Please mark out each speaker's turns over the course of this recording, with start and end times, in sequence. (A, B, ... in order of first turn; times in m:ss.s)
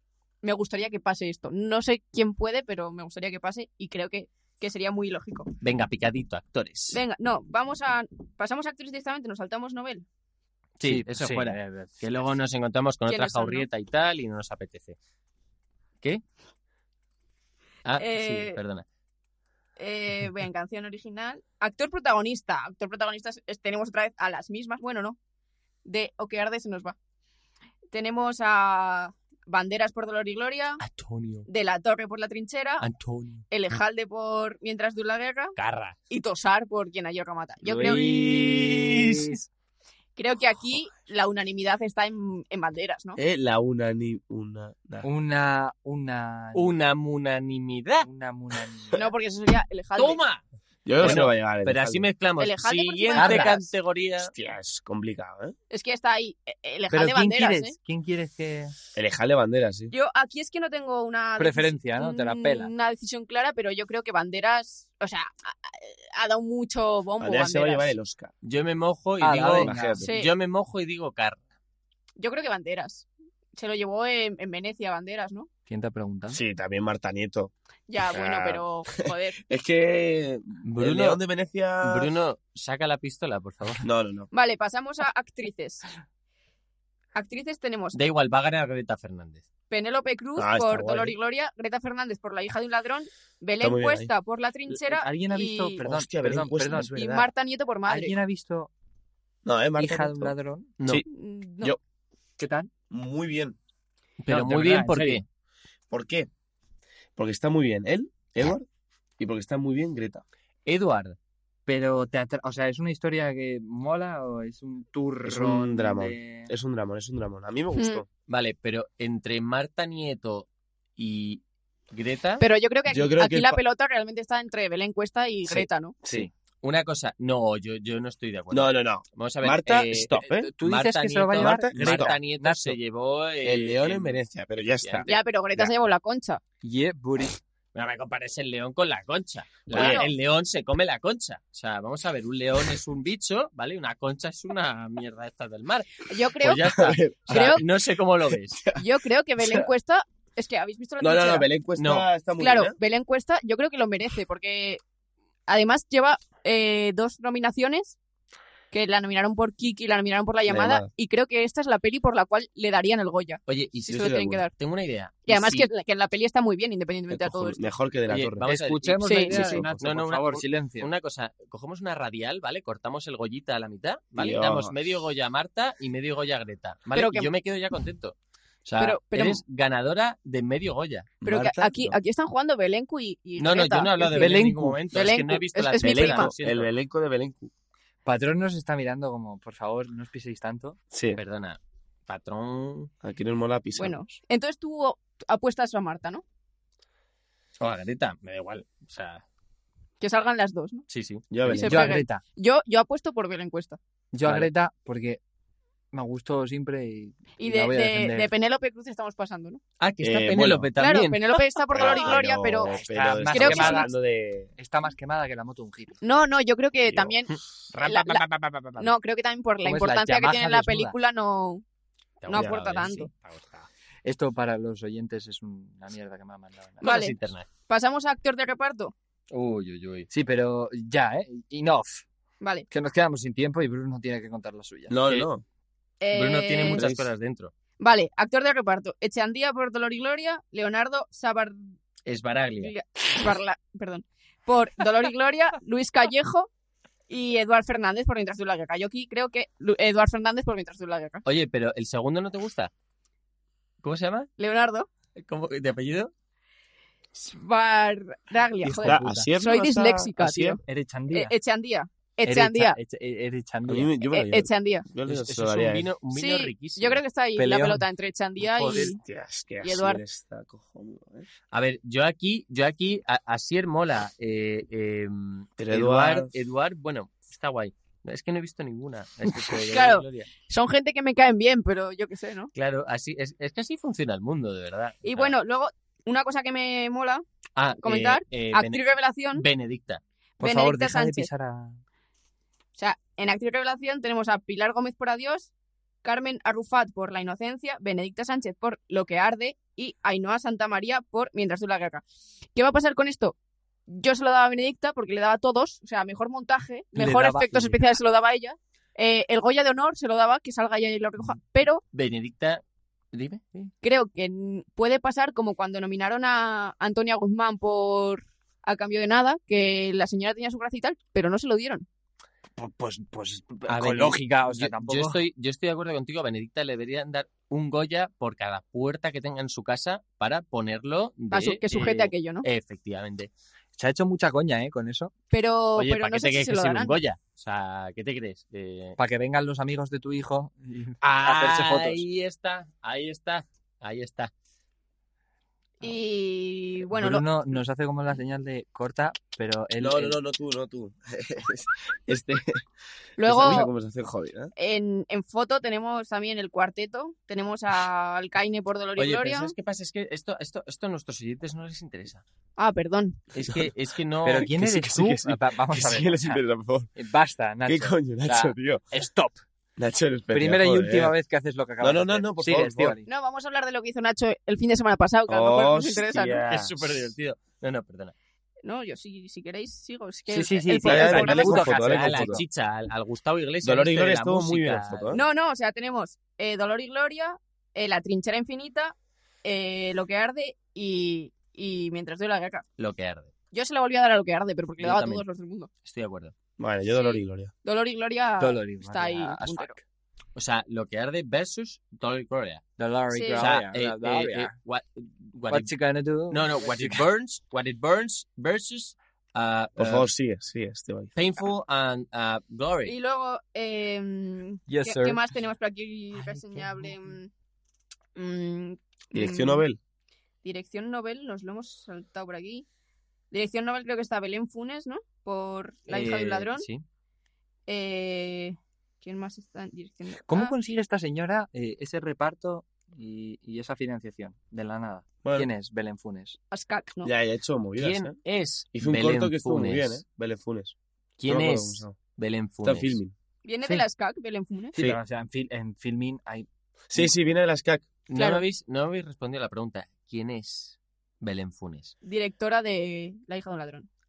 0:00.4-0:05.5 A
0:05.6-0:07.0 B
0:06.9-0:10.1 A
0:10.8-0:15.0 B
0:10.8-0:12.0 C
0:13.1-0:13.7 A
0:17.8-0:18.8 B
0:18.0-0:18.6 A
0:19.8-0:25.2 A
0:25.8-0:27.0 A
0:27.9-0:30.8 A
0:30.8-0:31.5 B
0:31.5-0:32.8 A
0:32.8-0:33.4 B
0:33.5-0:35.6 A
0:35.6-0:36.0 B
0:36.1-0:38.2 A
0:37.6-0:39.3 D
0:37.8-0:39.4 B
0:40.2-0:43.2 A
0:43.2-0:45.1 D
0:45.0-0:46.7 C
0:46.5-0:48.1 B
0:48.0-0:49.0 C
0:48.9-0:50.2 A
0:50.0-0:50.4 B
0:50.9-0:52.1 D
0:51.0-0:54.3 B
0:52.4-0:53.7 A
0:53.2-0:53.6 C
0:54.2-0:55.6 D
0:55.7-0:57.8 A
0:56.9-0:58.8 C
0:59.0-0:59.9 D
0:59.9-1:07.9 A
1:01.4-1:02.7 C
1:07.2-1:08.3 D
1:08.4-1:11.4 B
1:09.2-1:10.1 C
1:09.6-1:10.0 D
1:10.0-1:10.3 A
1:12.2-1:15.5 A
1:15.7-1:16.4 C
1:16.3-1:17.5 D
1:17.9-1:19.4 A
1:18.0-1:18.6 D
1:19.4-1:22.1 D
1:20.6-1:21.2 B
1:21.8-1:23.8 B
1:23.8-1:24.3 D
1:24.3-1:25.9 A
1:27.2-1:28.0 A
1:27.9-1:29.4 B
1:29.7-1:35.8 A
1:30.4-1:31.2 D
1:33.6-1:34.1 D
1:34.7-1:36.9 C
1:35.8-1:37.3 D
1:36.8-1:38.2 A
1:37.9-1:38.7 C
1:39.4-1:41.1 D
1:39.8-1:40.7 C
1:41.1-1:41.8 A
1:42.4-1:42.7 C
1:42.9-1:43.6 D
1:44.2-1:45.2 B
1:44.3-1:45.2 C
1:45.9-1:46.3 D
1:47.2-1:48.7 D
1:49.2-1:50.2 D
1:50.7-1:51.2 B
1:51.7-1:56.5 C
1:55.2-1:58.1 D
1:57.8-1:58.0 A
1:58.3-2:02.4 B
2:02.4-2:06.0 A
2:02.9-2:03.6 D
2:05.5-2:06.3 D
2:06.6-2:14.2 B
2:08.5-2:10.5 D
2:10.2-2:12.8 C
2:11.3-2:12.2 D
2:13.4-2:15.7 D
2:14.8-2:15.2 B
2:15.1-2:16.4 A
2:16.6-2:17.4 C
2:17.7-2:28.6 B
2:19.7-2:20.1 D
2:19.7-2:20.1 A
2:26.1-2:26.8 A
2:26.6-2:27.6 D
2:27.3-2:27.6 A
2:28.8-2:31.5 A
2:29.4-2:29.7 D
2:31.0-2:32.8 D
2:31.8-2:32.1 B
2:32.4-2:34.8 A
2:35.5-2:38.0 A
2:38.7-2:44.5 A
2:40.5-2:40.9 D
2:43.5-2:45.7 B
2:43.9-2:44.4 D
2:45.3-2:47.7 A
2:47.1-2:48.5 D
2:48.1-3:01.2 B
2:48.4-2:50.9 C
2:49.0-2:49.4 A
2:49.1-2:49.8 D
2:54.2-2:54.8 D
2:56.9-2:57.3 A
2:58.8-2:59.4 A
3:01.2-3:02.0 D
3:01.2-3:04.4 A
3:03.4-3:06.7 B
3:04.2-3:04.8 C
3:04.9-3:06.3 A
3:05.8-3:07.5 D
3:08.0-3:10.8 C
3:10.9-3:11.2 D
3:11.2-3:12.9 B
3:13.0-3:14.0 D
3:13.8-3:16.2 A
3:17.6-3:19.2 B
3:20.0-3:20.9 A
3:20.9-3:21.6 B
3:21.3-3:22.0 D
3:21.5-3:23.8 A
3:21.6-3:22.2 C
3:24.1-3:25.2 C
3:25.9-3:28.3 C
3:27.4-3:29.6 A
3:29.8-3:32.2 B
3:30.0-3:30.7 D
3:30.8-3:32.8 A
3:31.7-3:34.5 D
3:32.7-3:33.9 C
3:33.3-3:33.9 A
3:34.6-3:36.0 C
3:36.0-3:38.2 A
3:36.9-3:37.2 D
3:37.7-3:38.9 B
3:38.8-3:41.6 A
3:39.6-3:41.0 C
3:42.2-3:43.7 B
3:42.3-3:43.1 A
3:42.3-3:42.7 D
3:44.0-3:46.9 C
3:46.8-3:47.5 B
3:46.8-3:47.2 A
3:47.7-3:48.9 A
3:49.3-3:50.1 B
3:50.1-3:52.0 C
3:52.4-3:52.7 A
3:52.7-3:55.0 C
3:54.9-3:55.4 D
3:56.0-3:56.9 A
3:56.1-3:57.5 B
3:56.6-3:57.1 D
3:57.8-4:01.7 A
4:02.1-4:02.7 B
4:02.6-4:06.5 A
4:07.1-4:11.2 A
4:11.2-4:12.7 B
4:13.8-4:14.3 B
4:14.4-4:14.9 A
4:15.2-4:16.1 B
4:17.2-4:20.6 A
4:18.6-4:19.3 C
4:18.8-4:20.6 D
4:20.7-4:21.3 C
4:21.1-4:22.8 A
4:22.2-4:23.9 C
4:23.7-4:25.9 D
4:24.1-4:24.9 A
4:25.1-4:27.0 B
4:26.1-4:29.0 A
4:27.4-4:27.8 C
4:28.5-4:29.0 B
4:28.6-4:31.3 D
4:29.6-4:30.0 A
4:31.5-4:40.3 B
4:35.6-4:36.3 D
4:39.7-4:42.5 A
4:42.5-4:45.4 B
4:45.0-4:47.2 A
4:47.6-4:48.8 B
4:47.8-4:49.4 A
4:49.3-4:50.0 B
4:50.4-4:51.3 A
4:50.4-4:51.8 C
4:52.8-4:55.5 A
4:56.0-5:02.0 A
5:02.6-5:03.4 A
5:03.9-5:11.8 A
5:07.0-5:07.8 C
5:11.9-5:12.6 B
5:13.1-5:13.7 B
5:13.8-5:21.9 A
5:22.6-5:25.2 C
5:23.7-5:33.3 B
5:31.3-5:32.4 A
5:33.8-5:35.1 C
5:35.3-5:37.0 A
5:35.8-5:39.0 B
5:39.0-5:42.0 C
5:41.0-5:44.3 B
5:45.8-5:47.3 A
5:46.9-5:50.2 C
5:49.8-5:52.6 D
5:53.2-5:53.7 A
5:53.2-5:54.5 D
5:54.6-5:59.5 A
5:59.0-6:02.2 B
6:02.6-6:03.3 A
6:03.3-6:04.5 B
6:03.5-6:03.7 D
6:04.2-6:06.4 C
6:04.3-6:06.9 D
6:07.0-6:09.4 C
6:07.7-6:08.8 D
6:09.8-6:11.1 D
6:10.3-6:13.1 C
6:11.8-6:13.0 D
6:13.1-6:16.4 A
6:15.3-6:17.1 D
6:16.5-6:18.1 B
6:18.6-6:21.7 A
6:20.3-6:22.4 C
6:20.8-6:22.4 D
6:21.0-6:25.2 B
6:23.6-6:25.2 D
6:25.1-6:32.7 A
6:32.8-6:33.3 B
6:33.5-6:35.7 A
6:34.8-6:35.2 B
6:35.8-6:36.3 B
6:36.6-6:37.5 D
6:37.0-6:39.7 A
6:38.4-6:39.8 C
6:40.4-6:42.6 B
6:42.8-6:44.6 C
6:43.1-6:43.6 A
6:43.4-6:45.7 B
6:45.5-6:47.0 C
6:46.3-6:50.1 B
6:49.8-6:51.1 D
6:51.2-6:53.0 B
6:52.8-6:57.3 A
6:54.7-6:55.3 C
6:56.2-6:57.2 C
6:58.2-6:59.6 A
6:59.1-6:59.8 D
7:00.4-7:02.7 A
7:03.3-7:06.7 A
7:05.9-7:06.8 B
7:07.7-7:10.6 A
7:10.2-7:16.4 C
7:15.2-7:15.5 D
7:16.5-7:17.1 A
7:17.0-7:18.2 D
7:17.8-7:20.0 B
7:18.7-7:20.8 D
7:21.2-7:23.0 B
7:21.3-7:22.0 D
7:22.6-7:23.1 D
7:23.4-7:24.8 A
7:24.7-7:27.1 C
7:26.9-7:27.9 D
7:28.1-7:32.0 B
7:28.1-7:28.4 A
7:32.0-7:33.9 A